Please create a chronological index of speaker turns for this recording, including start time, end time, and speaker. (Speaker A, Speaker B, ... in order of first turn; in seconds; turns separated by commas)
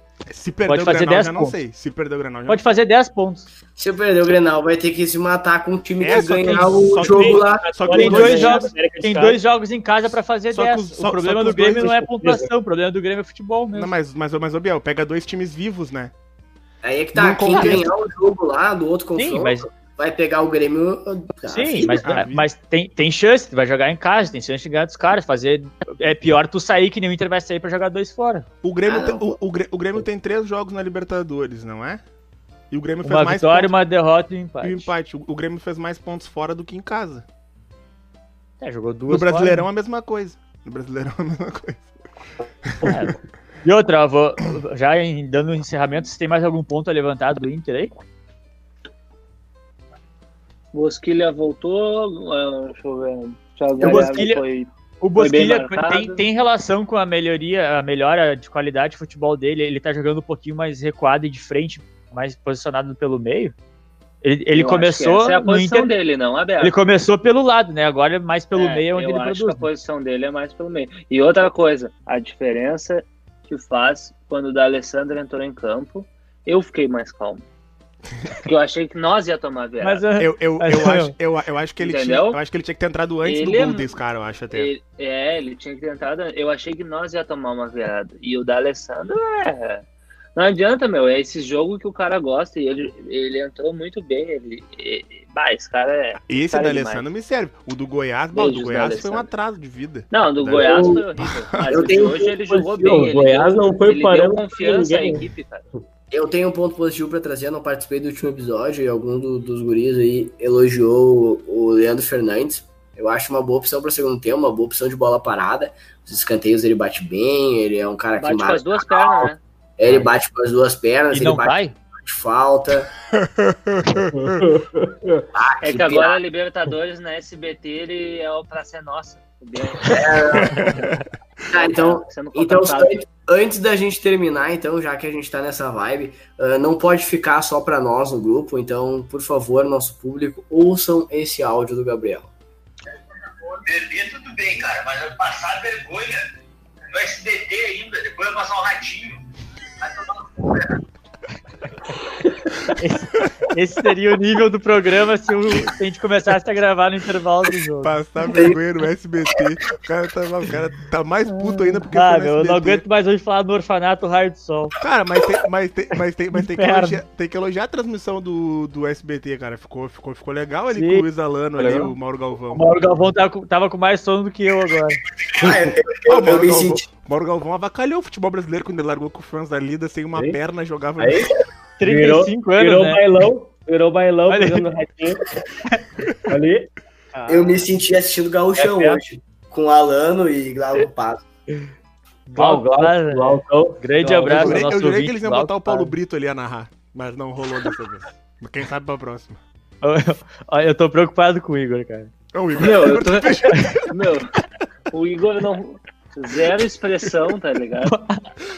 Speaker A: 0.3-2.6, Speaker B: 0.7-1.6, Speaker B: 2.5-3.5, Speaker C: 3.8-8.5, Speaker A: 6.0-8.7, Speaker D: 7.0-9.4, Speaker B: 7.9-13.9, Speaker A: 10.5-12.0, Speaker D: 12.2-12.4, Speaker A: 13.7-16.1, Speaker C: 16.8-22.1, Speaker A: 17.1-17.9, Speaker B: 19.1-19.6, Speaker B: 21.5-28.4, Speaker A: 22.0-22.4, Speaker A: 28.6-32.0, Speaker C: 28.9-29.2, Speaker A: 32.7-33.7, Speaker B: 33.0-34.9, Speaker A: 34.6-37.2, Speaker B: 38.6-39.7, Speaker A: 39.1-41.8, Speaker A: 42.7-43.0, Speaker B: 42.8-47.9, Speaker E: 50.7-56.2, Speaker B: 53.8-54.4, Speaker B: 55.0-63.5, Speaker B: 64.2-65.9, Speaker E: 64.5-66.8, Speaker B: 66.6-69.7, Speaker E: 68.5-77.4, Speaker E: 78.4-80.0, Speaker B: 79.8-81.1, Speaker A: 80.2-84.7, Speaker E: 81.8-82.4, Speaker E: 83.2-83.9, Speaker E: 84.5-97.0, Speaker A: 96.3-101.9, Speaker E: 98.3-99.3, Speaker E: 100.1-105.7, Speaker C: 100.5-101.0, Speaker C: 101.7-102.4, Speaker D: 102.5-105.2, Speaker C: 106.1-122.9, Speaker E: 118.2-119.4, Speaker B: 121.1-121.7, Speaker A: 123.2-124.4, Speaker D: 124.1-125.2, Speaker C: 125.3-126.2, Speaker E: 125.6-130.9, Speaker C: 129.9-130.8, Speaker A: 130.4-130.9, Speaker C: 131.5-142.3, Speaker E: 131.6-133.0, Speaker F: 143.4-146.2, Speaker F: 146.9-149.2, Speaker F: 149.8-150.2, Speaker B: 152.7-157.9, Speaker A: 157.8-162.8, Speaker C: 158.2-158.6, Speaker B: 161.3-164.7, Speaker A: 164.8-172.7, Speaker B: 166.3-167.0, Speaker B: 170.7-171.1, Speaker B: 171.6-171.9, Speaker B: 172.5-175.0, Speaker C: 175.3-176.8, Speaker A: 176.1-181.3, Speaker D: 181.0-185.2, Speaker B: 181.8-183.0, Speaker B: 184.3-184.7, Speaker D: 186.2-186.7, Speaker B: 187.1-187.6, Speaker C: 187.3-191.2, Speaker D: 188.6-189.0, Speaker B: 192.3-195.9, Speaker D: 192.3-194.7, Speaker A: 194.3-199.4, Speaker B: 199.8-202.1, Speaker A: 202.3-203.9, Speaker E: 202.5-204.3, Speaker E: 204.9-208.0, Speaker B: 207.8-208.2